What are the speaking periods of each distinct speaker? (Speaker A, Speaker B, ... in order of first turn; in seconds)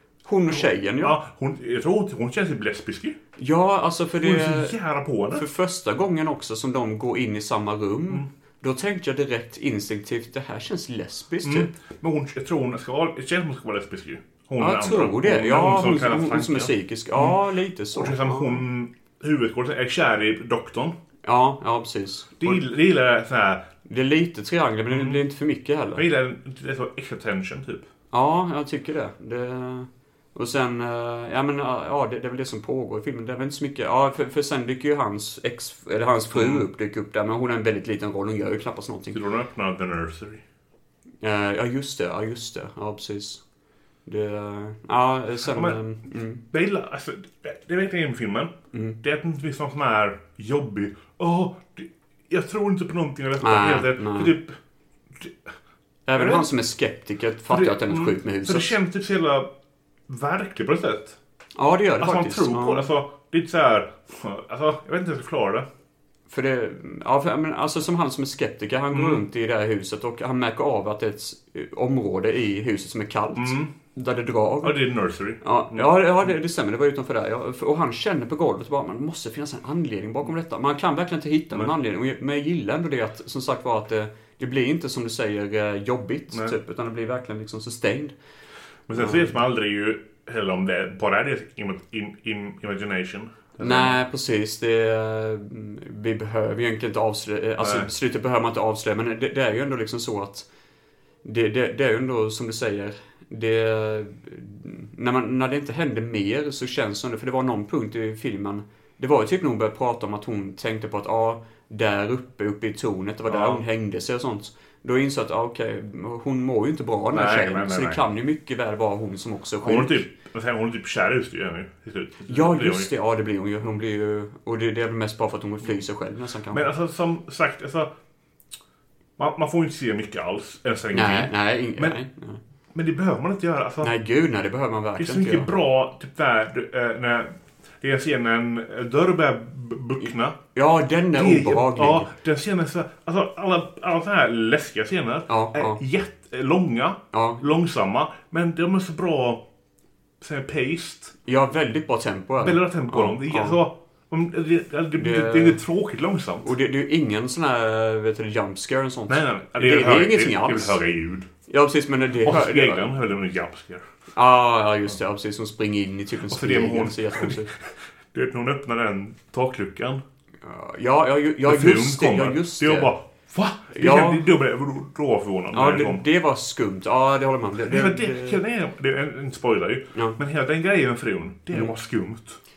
Speaker A: 0.2-1.2, 3.4-4.8, 5.3-11.7, 14.6-18.6, 21.2-22.6, 23.9-26.1, 28.1-39.2, 41.2-43.4, 44.1-46.4, 48.7-49.0, 53.4-54.4, 56.1-58.7, 61.6-62.9, 66.3-74.9, 75.4-88.1, 89.0-89.3, 93.6-100.5, 101.2-120.0, 122.3-126.7, 130.9-132.4, 133.8-135.5, 140.6-142.1, 145.3-145.8, 147.1-147.4, 151.3-153.6, 155.0-155.6, 156.4-160.8, 161.5-162.9, 164.1-167.5, 170.4-172.9, 173.7-174.3, 175.5-178.4
Speaker B: 0.5-3.2, 4.2-5.5, 11.4-17.4, 17.9-20.9, 22.4-23.7, 24.9-25.2, 25.9-27.9, 36.3-36.6, 39.1-40.4, 45.5-45.8, 46.4-54.6, 55.1-55.5, 56.1-56.5, 57.5-59.5, 60.1-61.2, 62.0-65.7, 68.9-69.2, 73.4-73.7, 74.6-75.9, 88.9-94.0, 97.6-97.9, 113.3-113.6, 117.1-118.0, 119.6-122.9, 126.5-127.9, 129.2-132.0, 132.7-133.9, 135.0-140.4, 141.1-149.5, 150.2-151.1, 152.4-156.5, 159.1-161.3, 162.2-163.8, 166.3-167.6, 168.1-170.0, 171.4-176.1, 177.7-182.4